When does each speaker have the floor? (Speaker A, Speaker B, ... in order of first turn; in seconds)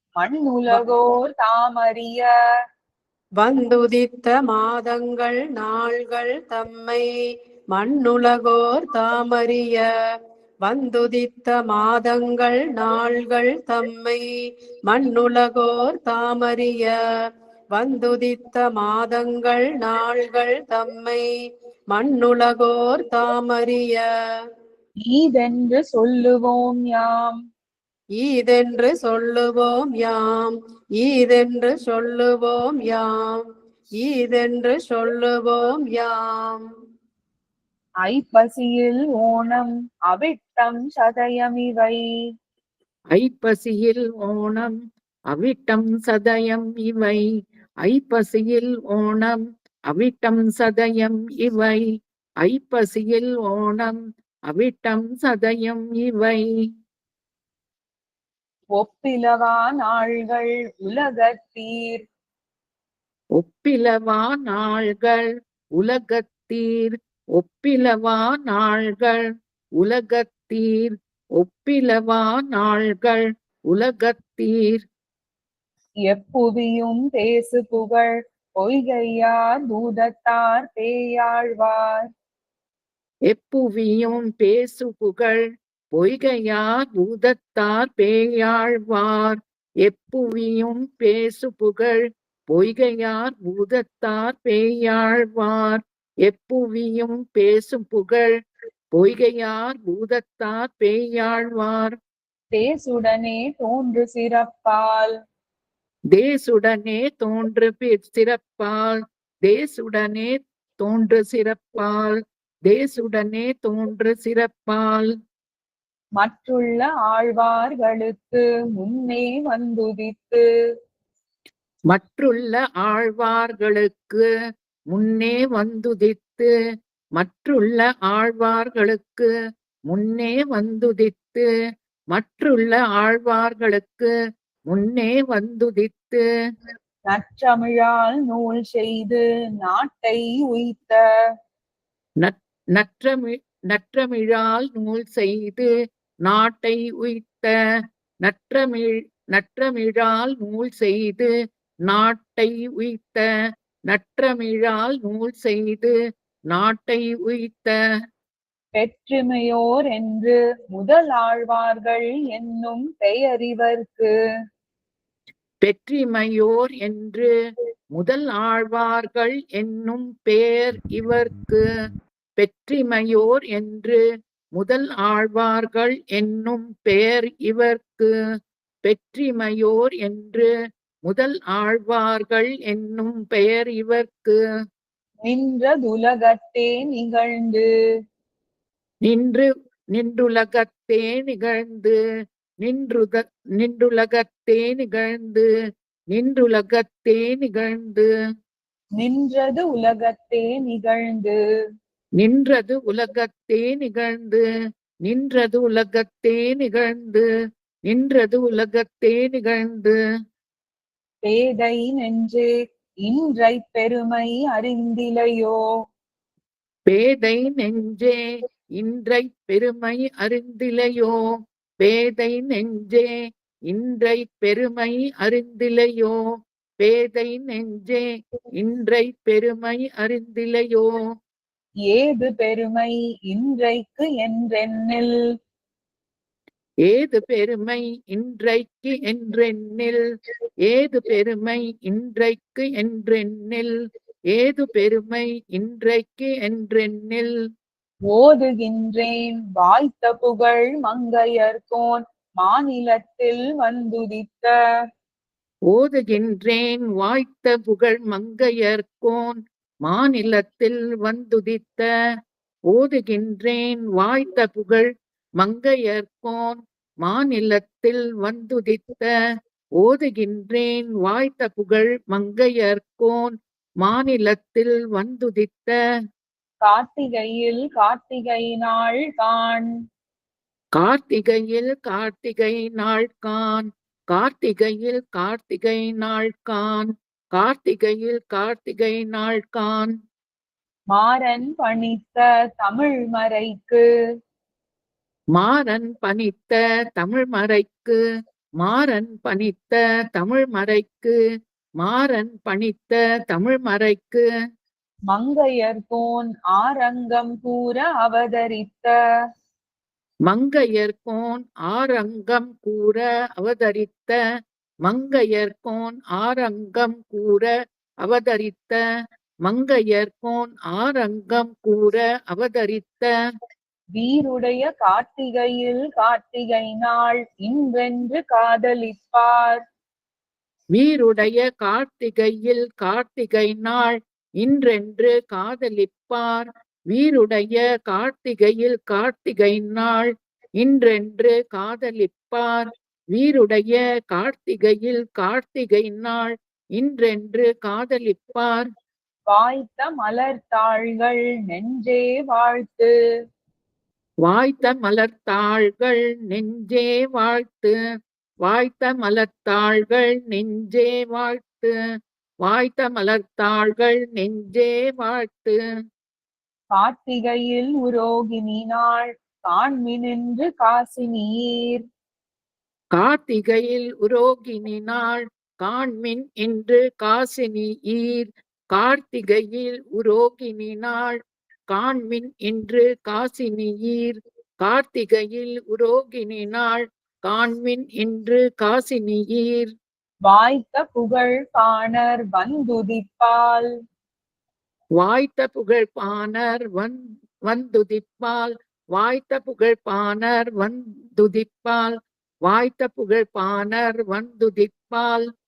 Speaker A: 0.2-2.3, 25.1-27.4, 38.0-42.0, 58.8-62.0, 76.1-82.0, 102.5-105.1, 116.2-120.4, 137.1-141.0, 158.7-164.1, 185.2-187.7, 199.0-201.4, 211.2-212.4, 213.1-215.6, 231.9-235.1, 248.1-254.5, 276.6-279.7, 290.9-293.8, 305.1-308.9, 324.0-329.6, 349.3-352.9, 366.7-371.8, 390.3-393.7
Speaker B: 3.4-7.0, 7.7-9.8, 10.6-14.2, 14.9-16.9, 17.7-21.2, 21.9-24.0, 28.2-33.4, 34.0-36.6
Speaker C: 43.1-44.7, 45.3-47.2, 47.8-49.4, 49.9-51.8, 52.4-54.0, 54.5-56.4, 63.4-65.2, 65.8-69.2, 69.8-74.8, 83.3-85.4, 85.9-98.3, 98.9-102.0, 106.1-112.1, 112.7-115.1, 121.9-124.2, 124.9-126.5, 127.2-129.3, 129.9-131.4, 132.1-134.1, 134.7-136.2, 142.2-145.7, 146.2-147.5, 148.2-151.3, 151.9-153.2, 153.9-155.9, 156.5-157.7, 165.6-167.3, 167.9-171.6, 172.4-174.0, 174.6-178.1, 178.8-180.5, 181.1-184.4, 189.0-191.9, 192.6-195.5, 196.1-198.1, 202.2-204.4, 205.0-207.2, 207.9-209.9, 216.9-218.2, 218.8-221.1, 221.8-223.1, 223.7-226.2, 226.8-230.9, 236.8-240.0, 240.6-243.7, 244.3-247.3, 255.7-259.3, 259.9-261.9, 262.7-264.9, 265.4-269.1, 269.8-275.7, 280.8-289.9, 295.3-298.0, 298.6-301.1, 301.8-304.2, 310.3-314.1, 314.9-317.5, 318.0-318.8, 319.4-323.1, 330.7-342.6, 343.1-348.6, 354.2-357.7, 358.4-361.7, 362.4-365.6, 372.9-381.2, 381.7-389.7, 395.0-396.9, 397.5-401.9, 402.4-405.2